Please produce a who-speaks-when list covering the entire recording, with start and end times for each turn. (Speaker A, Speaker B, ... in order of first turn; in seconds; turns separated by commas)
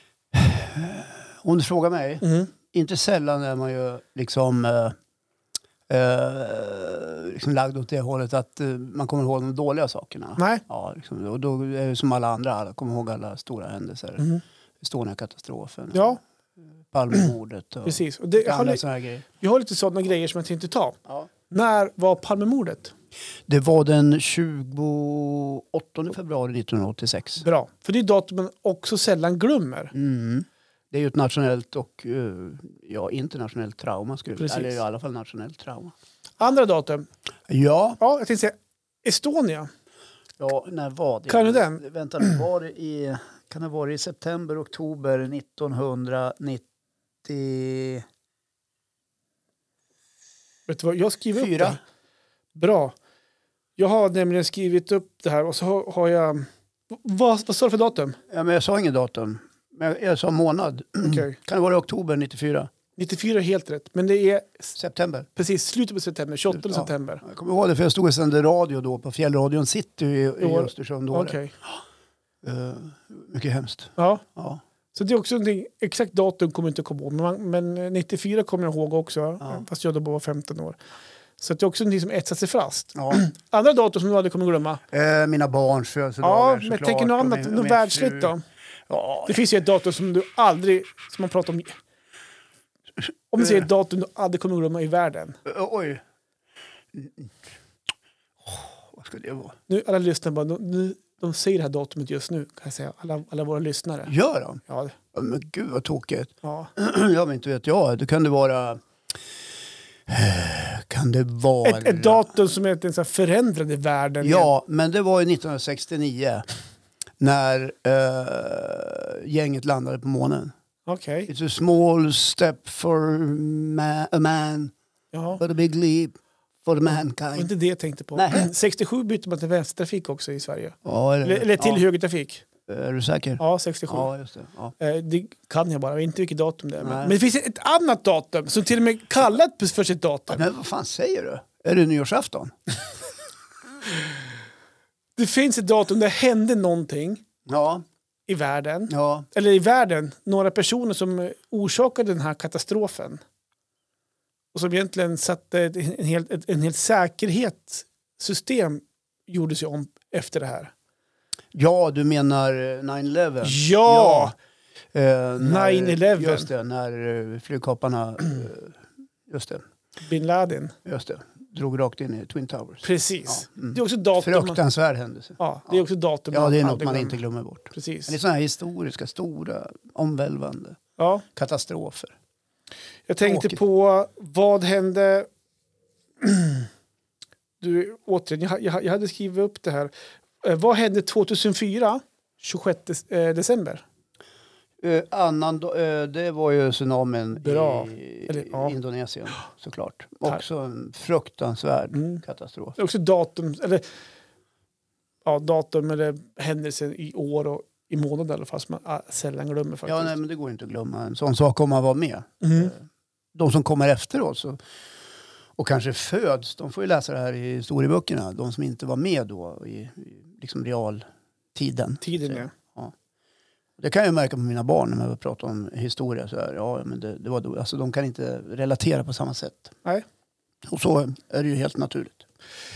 Speaker A: 0.3-5.0, Speaker B: 2.2-2.5, Speaker A: 5.9-14.3, Speaker B: 10.4-10.6, Speaker A: 14.8-16.1, Speaker B: 15.9-16.2, Speaker A: 16.9-19.2, Speaker B: 17.9-21.0, Speaker B: 21.5-22.9, Speaker A: 23.5-27.4, Speaker B: 27.4-29.9, Speaker A: 29.9-35.9, Speaker B: 34.4-34.8, Speaker B: 36.4-37.1, Speaker A: 37.5-38.0, Speaker B: 38.0-39.7, Speaker A: 40.4-46.6, Speaker B: 41.3-42.3, Speaker A: 47.2-48.0, Speaker B: 50.7-51.8, Speaker A: 51.4-51.8, Speaker B: 52.5-53.0, Speaker B: 53.8-58.2, Speaker A: 58.3-62.7, Speaker B: 61.0-61.4, Speaker B: 63.0-64.8, Speaker A: 64.8-65.3, Speaker B: 65.3-67.2, Speaker A: 66.5-71.8, Speaker B: 70.4-71.5, Speaker A: 72.4-74.6, Speaker B: 74.0-74.2, Speaker B: 74.9-80.8, Speaker B: 81.4-84.8, Speaker A: 83.0-83.2, Speaker A: 84.9-88.3, Speaker B: 86.2-88.4, Speaker A: 88.9-89.4, Speaker B: 89.3-91.8, Speaker B: 93.3-95.4, Speaker A: 93.4-93.7, Speaker A: 95.5-96.0, Speaker A: 96.9-97.3, Speaker A: 98.5-99.6, Speaker B: 99.7-104.1, Speaker A: 104.1-104.6, Speaker B: 104.7-104.9, Speaker A: 105.1-108.8, Speaker B: 106.4-106.7, Speaker A: 110.1-112.2, Speaker B: 111.6-114.5, Speaker A: 114.2-116.5, Speaker A: 117.2-120.5, Speaker B: 120.9-121.3, Speaker A: 121.3-124.7, Speaker B: 125.1-125.4, Speaker A: 125.4-127.5, Speaker B: 127.4-132.4, Speaker A: 128.1-128.5, Speaker A: 130.8-131.8, Speaker A: 132.7-134.7, Speaker B: 133.4-134.1, Speaker B: 134.8-140.4, Speaker A: 136.8-137.2, Speaker A: 140.3-142.5, Speaker B: 145.2-147.2, Speaker A: 147.5-147.8, Speaker B: 148.3-153.2, Speaker A: 148.9-149.3, Speaker B: 154.5-160.7, Speaker A: 161.5-164.3, Speaker B: 163.4-164.3, Speaker A: 164.9-169.6, Speaker B: 165.4-166.5, Speaker B: 170.0-170.8, Speaker A: 170.8-180.8, Speaker B: 172.8-174.6, Speaker B: 175.4-177.2, Speaker B: 177.7-178.2, Speaker B: 181.0-181.2, Speaker A: 181.3-182.2, Speaker B: 183.1-185.3, Speaker A: 183.2-183.6, Speaker B: 186.2-186.7, Speaker B: 187.6-189.9, Speaker B: 190.4-193.8, Speaker A: 194.8-202.8, Speaker B: 197.4-198.7, Speaker B: 201.9-202.2, Speaker B: 202.8-203.8, Speaker B: 205.2-210.2, Speaker A: 209.9-214.6, Speaker B: 212.4-212.7, Speaker A: 215.6-222.9, Speaker B: 222.0-222.5, Speaker A: 223.8-229.8, Speaker A: 230.7-232.2